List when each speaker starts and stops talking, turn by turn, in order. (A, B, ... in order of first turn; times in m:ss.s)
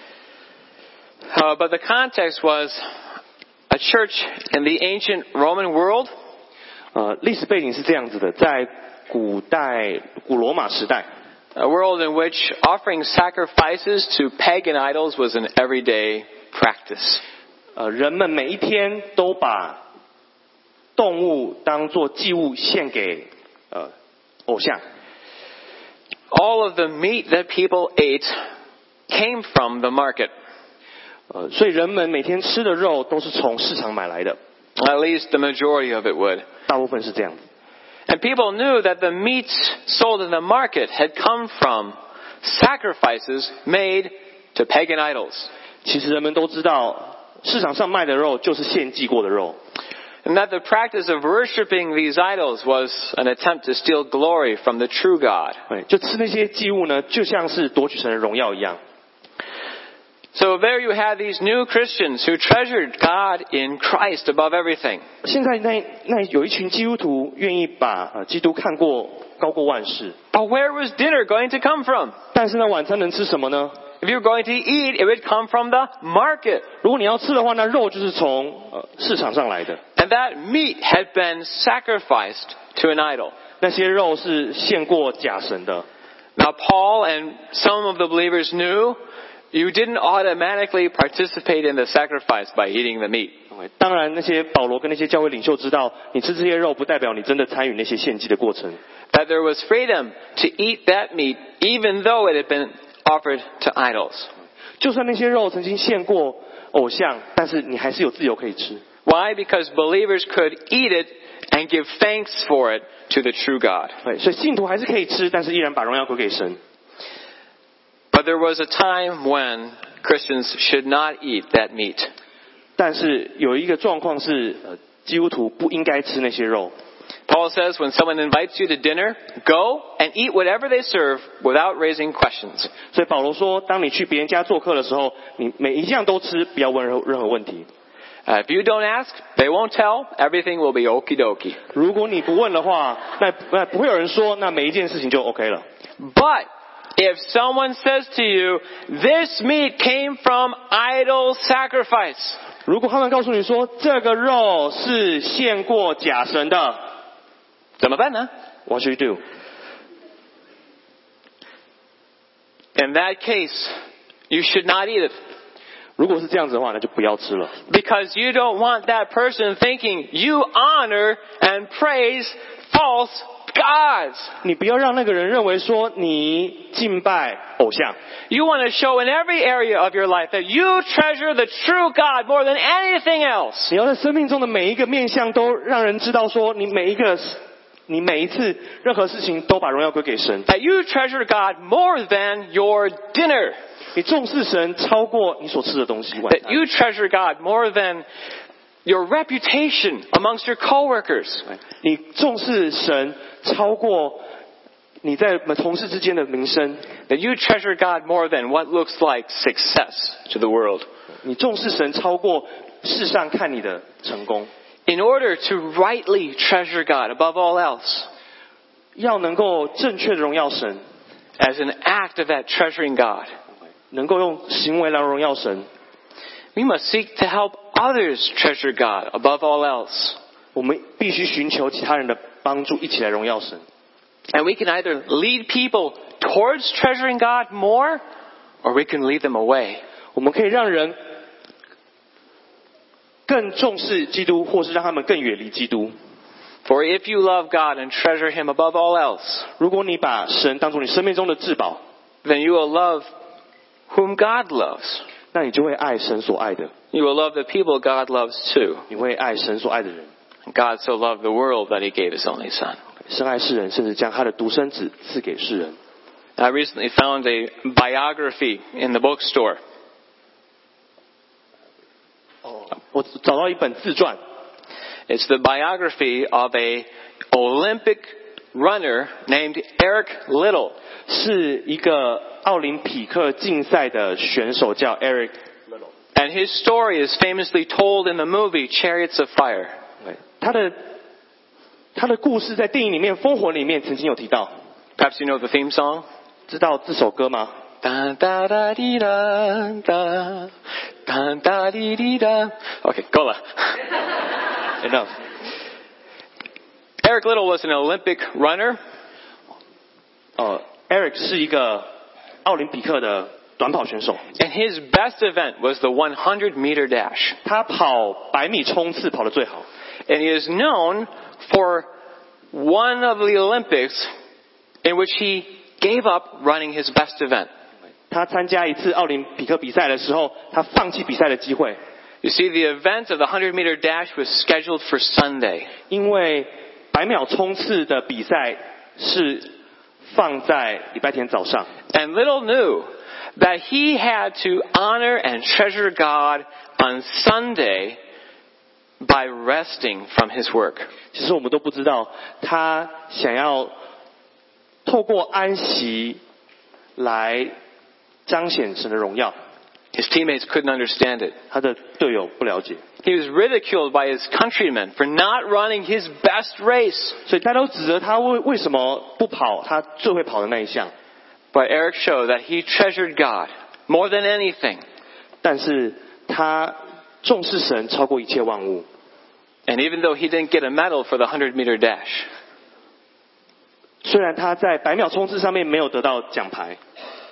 0:01.3-0:02.8 A
0:03.7-0:06.1 A
0:06.9-0:11.1 B
0:11.5-0:17.2 A
0:17.8-0:19.8 B
0:21.0-0:23.9 B
0:24.5-0:24.8 B
0:26.3-0:28.4 A
0:29.1-0:30.3 A
0:31.3-0:34.4 B
0:34.8-0:36.4 A
0:36.7-0:37.4 B
0:38.1-0:45.5 A
0:45.8-0:49.6 B
0:50.2-0:55.6 A
0:55.7-0:58.8 B
1:00.3-1:05.0 A
1:05.2-1:10.2 B
1:10.3-1:12.2 A
1:12.3-1:13.8 B
1:14.0-1:16.6 A
1:16.8-1:19.8 B
1:20.0-1:23.3 A
1:23.6-1:25.8 B
1:26.4-1:29.0 A
1:29.5-1:33.3 A
1:33.5-1:38.8 B
1:39.1-1:44.3 A
1:44.8-1:48.8 B
1:49.0-1:54.0 A
1:54.0-1:56.6 B
1:58.1-2:02.1 A
2:02.8-2:06.7 B
2:07.3-2:12.7 A
2:12.9-2:17.7 B
2:18.2-2:21.6 A
2:21.7-2:25.6 B
2:26.0-2:32.4 A
2:32.6-2:36.8 B
2:37.8-2:38.3 A
2:38.6-2:39.2 B
2:42.8-2:43.7 A
2:44.3-2:45.1 A
2:46.0-2:47.5 B
2:47.7-2:54.3 A
2:54.4-2:58.0 B
2:58.3-3:03.7 A
3:03.7-3:10.4 B
3:10.4-3:13.6 A
3:13.9-3:16.6 B
3:16.2-3:18.0 A
3:18.8-3:21.5 A
3:21.6-3:24.2 B
3:25.0-3:26.9 B
3:27.1-3:30.8 A
3:31.2-3:34.5 B
3:34.9-3:38.1 A
3:39.0-3:40.8 B
3:41.4-3:43.4 A
3:43.9-3:45.7 B
3:46.5-3:50.2 A
3:50.5-3:53.6 B
3:54.3-3:58.0 A
3:58.6-3:59.8 A
4:00.1-4:01.0 B
4:03.3-4:05.9 B
4:06.6-4:09.5 A
4:09.6-4:11.8 B
4:12.2-4:13.1 A
4:13.9-4:15.0 A
4:15.3-4:16.7 B
4:16.9-4:18.9 A
4:18.9-4:20.1 B
4:20.5-4:22.8 A
4:23.1-4:25.8 B
4:26.4-4:29.6 A
4:32.5-4:34.2 B
4:35.1-4:40.7 A
4:41.1-4:45.4 B
4:46.1-4:49.7 A
4:50.0-4:50.8 B
4:51.9-4:54.5 B
4:55.0-4:56.0 A
4:56.5-4:57.5 B
4:57.8-5:00.5 A
5:01.0-5:03.8 A
5:04.8-5:05.1 B
5:07.0-5:08.8 A
5:10.4-5:11.9 B
5:12.4-5:14.2 B
5:14.4-5:17.4 A
5:17.4-5:19.6 B
5:20.1-5:21.9 A
5:22.5-5:24.1 A
5:24.8-5:27.5 A
5:28.1-5:31.8 B
5:32.2-5:35.7 A
5:35.9-5:39.5 B
5:40.1-5:41.7 B
5:41.9-5:48.0 A
5:49.0-5:50.9 A
5:51.1-5:53.7 B
5:54.8-5:56.2 B
5:57.0-5:57.5 B
5:58.2-5:59.3 B
5:59.9-6:01.4 A
6:01.5-6:02.8 B
6:03.0-6:07.2 A
6:07.2-6:10.9 B
6:11.5-6:14.8 A
6:15.4-6:18.8 B
6:19.7-6:22.3 A
6:24.0-6:26.8 B